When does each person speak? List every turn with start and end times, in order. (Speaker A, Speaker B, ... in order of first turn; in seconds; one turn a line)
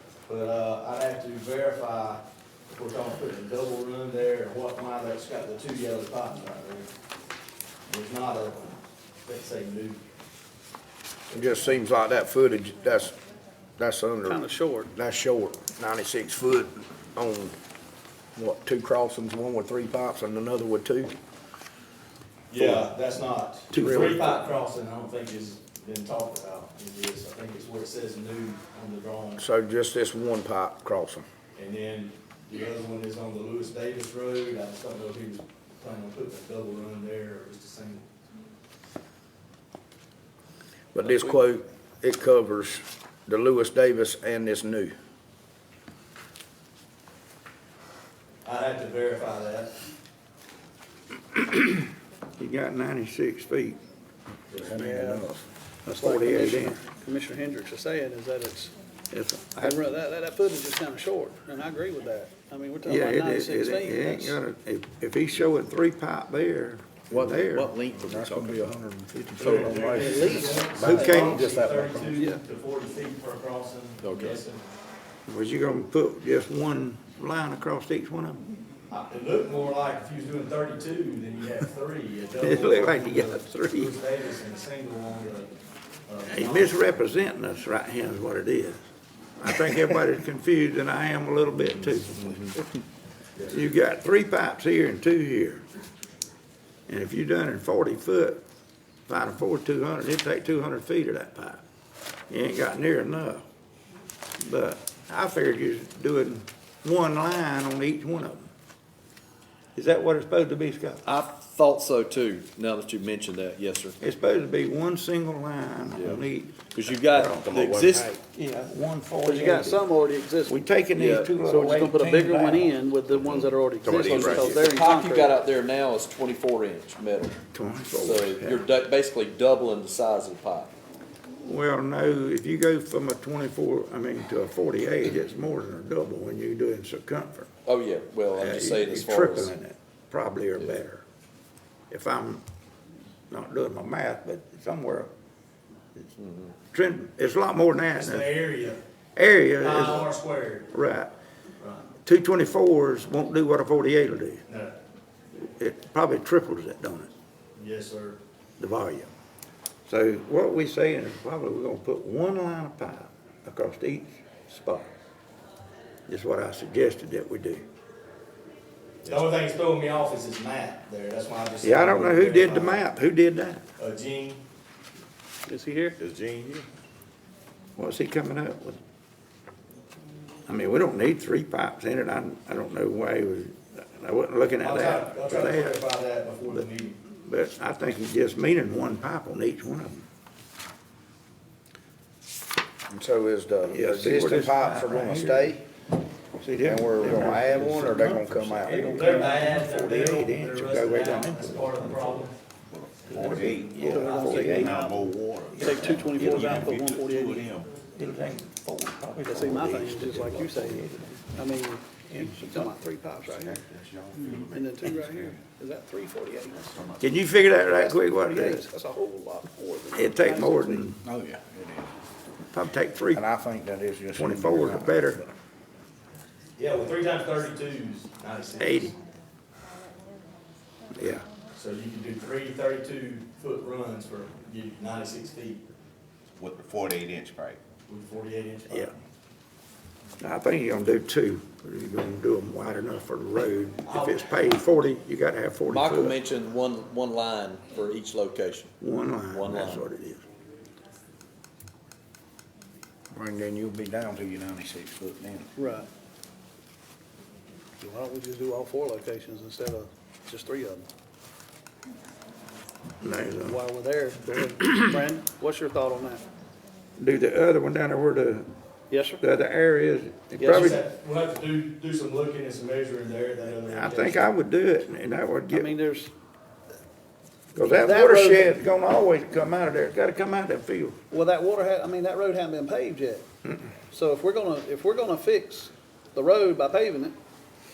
Speaker A: 0.3-6.9
Speaker A: 7.9-10.0
Speaker B: 11.3-13.2
Speaker B: 13.8-17.6
Speaker C: 14.2-14.9
Speaker B: 18.4-21.1
Speaker A: 22.5-29.4
Speaker B: 22.5-22.9
Speaker D: 23.7-24.2
Speaker B: 23.8-24.2
Speaker B: 29.4-31.2
Speaker A: 31.6-38.1
Speaker B: 40.9-44.9
Speaker A: 48.4-49.8
Speaker D: 51.3-51.9
Speaker D: 52.4-53.8
Speaker B: 54.6-55.5
Speaker C: 54.8-55.2
Speaker D: 55.9-56.8
Speaker C: 55.9-58.7
Speaker D: 59.1-59.9
Speaker C: 59.6-64.4
Speaker D: 62.8-67.7
Speaker E: 67.1-68.7
Speaker B: 67.1-72.1
Speaker E: 69.4-69.9
Speaker A: 69.4-74.6
Speaker C: 69.9-71.2
Speaker D: 70.9-71.5
Speaker C: 72.1-72.4
Speaker E: 74.0-74.4
Speaker D: 75.3-78.4
Speaker A: 78.9-85.5
Speaker D: 82.4-84.0
Speaker A: 86.1-86.9
Speaker D: 86.3-88.8
Speaker D: 89.4-92.6
Speaker D: 93.5-95.7
Speaker D: 96.9-98.4
Speaker D: 99.1-101.6
Speaker D: 102.3-103.4
Speaker D: 104.4-108.5
Speaker D: 109.8-111.0
Speaker E: 111.0-114.0
Speaker D: 114.0-117.6
Speaker E: 115.9-118.2
Speaker F: 117.5-118.1
Speaker B: 117.6-118.0
Speaker D: 118.2-122.8
Speaker C: 119.2-120.6
Speaker E: 121.0-121.3
Speaker C: 121.4-125.3
Speaker F: 123.1-124.5
Speaker E: 123.9-127.4
Speaker D: 127.5-128.6
Speaker E: 128.0-130.7
Speaker D: 131.4-137.5
Speaker E: 137.7-139.5
Speaker D: 138.3-141.0
Speaker D: 141.9-142.4
Speaker D: 143.3-145.1
Speaker E: 146.2-146.5
Speaker D: 146.7-148.4
Speaker A: 147.9-148.8
Speaker D: 149.2-150.1
Speaker A: 149.6-150.7
Speaker D: 150.7-151.1
Speaker A: 151.6-151.9
Speaker D: 152.0-154.4
Speaker A: 154.5-154.8
Speaker D: 155.3-157.1
Speaker A: 157.6-158.2
Speaker D: 158.6-159.1
Speaker D: 159.9-164.9
Speaker D: 166.1-167.7
Speaker A: 169.1-172.9
Speaker D: 171.6-173.7
Speaker A: 173.8-174.4
Speaker C: 175.5-176.0
Speaker F: 176.0-176.7
Speaker D: 177.8-178.8
Speaker D: 180.5-185.8
Speaker A: 184.6-187.0
Speaker D: 186.5-190.1
Speaker B: 192.9-195.6
Speaker D: 193.6-195.6
Speaker D: 196.4-202.3
Speaker B: 196.6-199.0
Speaker A: 198.9-202.4
Speaker F: 202.7-207.8
Speaker A: 203.1-203.5
Speaker D: 203.2-204.8
Speaker C: 203.8-207.6
Speaker D: 205.5-206.6
Speaker D: 207.8-211.4
Speaker C: 209.2-213.6
Speaker D: 212.1-212.7
Speaker F: 213.3-215.4
Speaker C: 214.2-216.7
Speaker F: 216.7-217.1
Speaker D: 217.0-218.7
Speaker C: 217.5-220.9
Speaker D: 219.9-221.0
Speaker B: 220.9-221.9
Speaker D: 222.5-223.2
Speaker B: 223.1-225.3
Speaker D: 224.2-225.2
Speaker A: 226.6-229.0
Speaker D: 228.6-228.9
Speaker D: 230.9-231.3
Speaker A: 231.5-235.7
Speaker F: 236.4-237.6
Speaker A: 237.9-239.0
Speaker D: 240.2-246.2
Speaker A: 243.8-244.5
Speaker E: 245.7-248.7
Speaker D: 248.8-250.2
Speaker E: 249.3-249.8
Speaker B: 253.1-255.5
Speaker C: 255.6-255.9
Speaker C: 257.8-260.9
Speaker D: 263.0-263.6
Speaker C: 263.4-266.2
Speaker D: 264.6-264.9
Speaker D: 267.0-268.5
Speaker C: 268.9-269.2
Speaker D: 269.2-270.8
Speaker A: 270.4-274.3
Speaker D: 273.7-275.8
Speaker C: 275.5-276.1
Speaker D: 277.6-281.0
Speaker C: 277.6-278.6
Speaker C: 281.1-283.3
Speaker D: 283.4-283.7
Speaker C: 283.9-287.1